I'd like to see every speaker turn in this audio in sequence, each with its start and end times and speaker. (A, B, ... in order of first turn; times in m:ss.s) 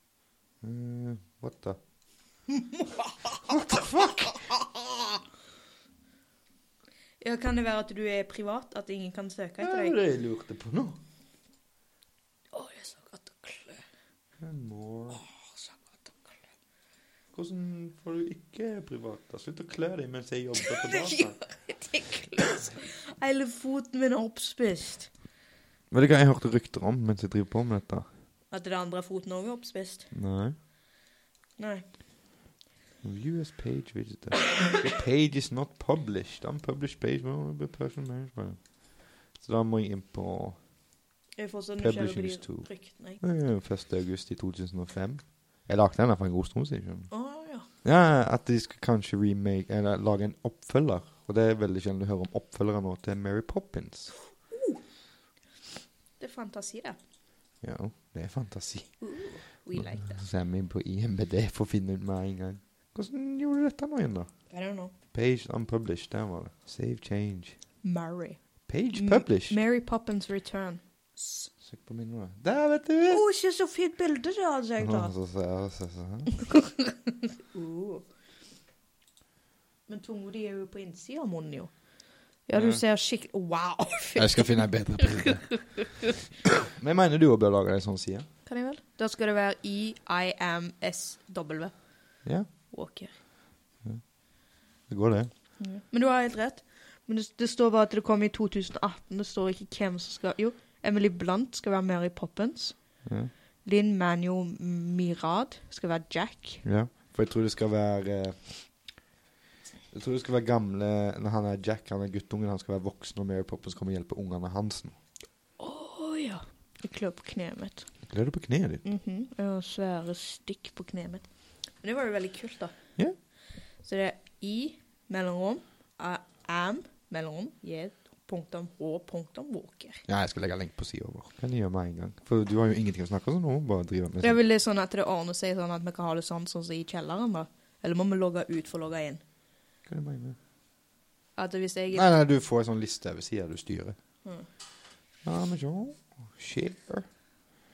0:00.6-0:01.8 A
0:02.5-0:05.2 B
0:03.5-0:04.4 A
0:07.2-0:10.0 B
0:09.6-0:11.0 A
0:12.5-0:13.8 B
0:14.4-0:15.2 A
0:15.1-0:16.3 B
0:17.3-0:21.4 A
0:20.6-0:25.1 B
0:25.9-0:28.1 A
0:28.5-0:30.1 B
0:30.1-0:30.6 A
0:31.6-0:31.8 B
0:33.0-0:38.6 A
0:39.4-0:40.6 A
0:41.4-0:43.2 B
0:41.8-0:47.1 A
0:47.1-0:47.7 B
0:47.8-0:54.2 A
0:54.5-0:54.8 B
0:56.2-0:57.0 B
0:57.6-0:59.0 A
0:59.0-1:00.2 B
0:59.8-1:04.3 A
1:04.5-1:04.9 B
1:05.1-1:07.6 A
1:07.8-1:08.4 B
1:08.7-1:09.6 A
1:08.9-1:11.5 B
1:11.6-1:13.2 A
1:13.1-1:15.1 B
1:14.8-1:16.5 A
1:16.5-1:18.1 B
1:19.9-1:21.7 B
1:22.5-1:25.9 B
1:22.5-1:22.8 A
1:24.2-1:28.3 A
1:28.5-1:31.7 B
1:32.7-1:33.1 B
1:34.9-1:35.3 A
1:35.6-1:42.8 B
1:43.1-1:43.3 A
1:43.6-1:46.6 B
1:46.6-1:48.7 A
1:49.9-1:55.0 A
1:55.6-1:57.9 B
1:58.0-1:58.8 A
1:58.8-2:01.3 B
2:01.8-2:02.8 B
2:03.8-2:10.0 B
2:10.1-2:14.4 A
2:14.2-2:19.2 B
2:19.9-2:20.4 A
2:21.4-2:22.1 B
2:21.9-2:24.0 A
2:25.2-2:27.1 A